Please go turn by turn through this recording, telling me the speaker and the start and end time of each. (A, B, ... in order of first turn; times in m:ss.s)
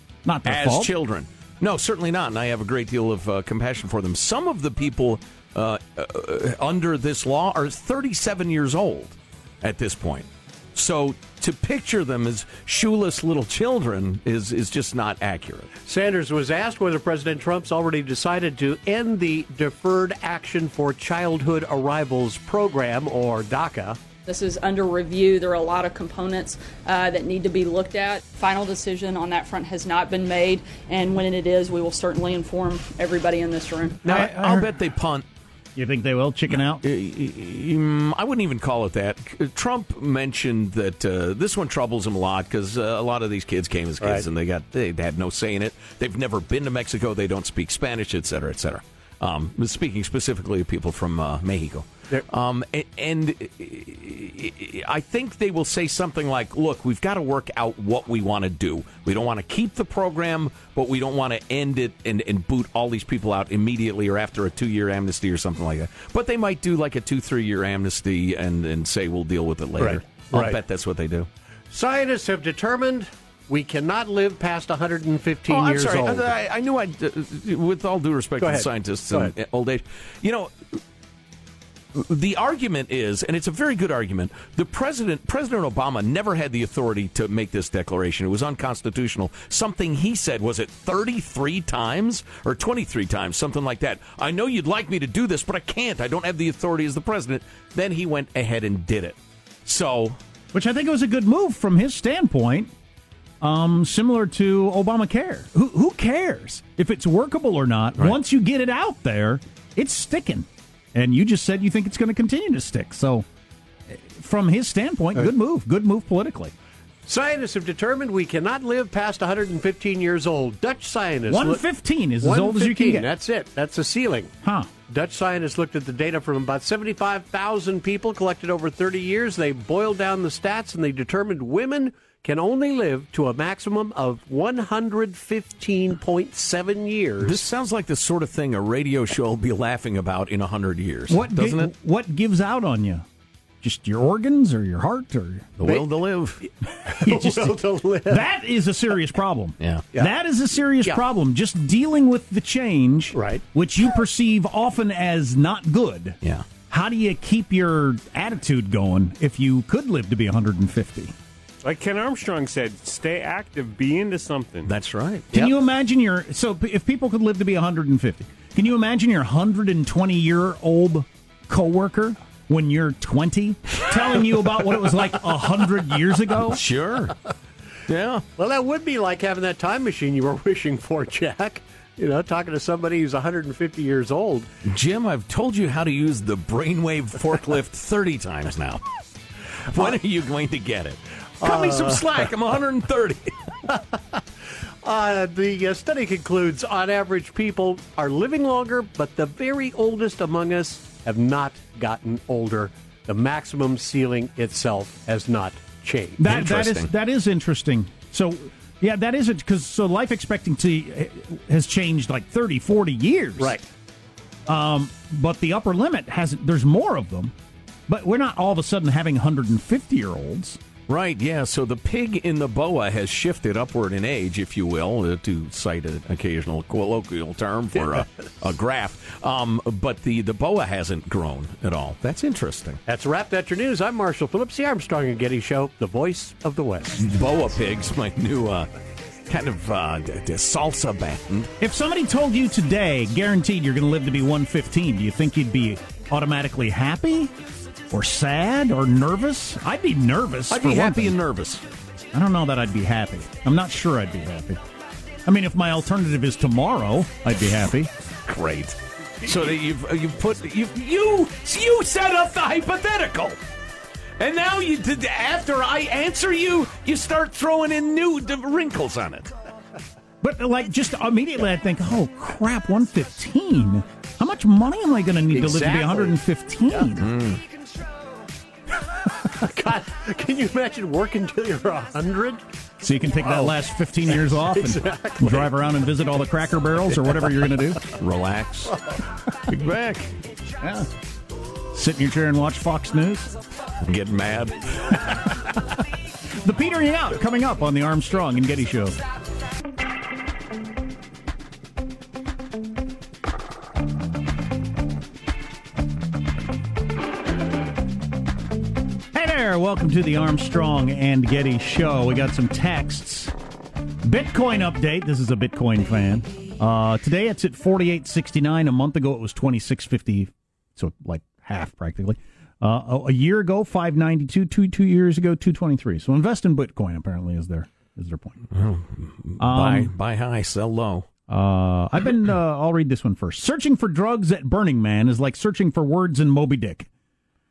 0:00.2-0:00.9 A
0:00.4-0:15.7 B
0:15.8-0:24.0 C
0:24.2-0:34.0 D
0:34.0-0:34.7 A
0:34.0-0:35.2 B
0:35.8-0:36.8 A
0:36.5-1:11.3 B
0:44.0-0:44.2 C
1:09.8-1:10.6 C
1:11.7-1:16.3 C
1:15.5-1:20.5 B
1:18.4-1:19.3 C
1:21.9-1:40.2 B
1:40.5-1:42.7 A
1:43.4-1:53.2 A
1:53.9-1:56.5 A
1:57.0-2:01.6 C
2:01.3-2:03.1 A
2:02.2-2:04.3 C
2:04.4-2:04.7 A
2:04.8-2:17.4 C
2:17.2-2:21.7 B
2:21.1-2:23.0 A
2:23.6-2:25.5 A
2:25.6-2:26.4 B
2:26.9-2:36.2 A
2:27.0-2:28.2 C
2:29.6-2:29.8 B
2:33.1-2:33.4 C
2:36.7-2:41.1 A
2:41.6-2:44.7 E
2:44.6-2:45.5 B
2:45.3-2:56.6 A
2:56.5-2:57.2 B
2:57.9-2:58.2 B
2:58.4-3:04.5 C
3:04.6-3:08.8 B
3:09.7-3:13.3 B
3:11.4-3:12.2 C
3:14.8-3:26.2 C
3:26.2-3:33.6 A
3:26.2-3:26.9 B
3:33.4-3:33.6 C
3:34.5-3:37.3 A
3:37.9-3:40.6 A
3:40.9-3:52.8 B
3:52.9-3:57.0 C
3:57.0-3:58.7 B
3:59.3-4:01.5 B
4:01.6-4:07.3 A
4:07.9-4:11.2 A
4:10.5-4:11.6 B
4:12.1-4:14.6 A
4:15.2-4:17.9 A
4:18.3-4:23.4 B
4:24.2-4:29.3 B
4:30.2-4:37.0 A
4:35.3-4:36.2 C
4:37.0-4:37.4 B
4:39.4-4:42.4 C
4:42.8-4:47.8 A
4:43.2-4:43.5 C
4:44.1-4:45.5 C
4:47.9-4:48.7 B
4:49.5-4:50.1 B
4:50.6-4:50.9 A
4:51.7-4:53.3 A
4:53.8-4:55.2 B
4:56.4-4:59.0 A
5:09.1-5:13.3 A
5:14.0-5:28.4 A
5:28.5-5:31.1 B
5:29.4-5:29.9 A
5:31.3-5:36.9 A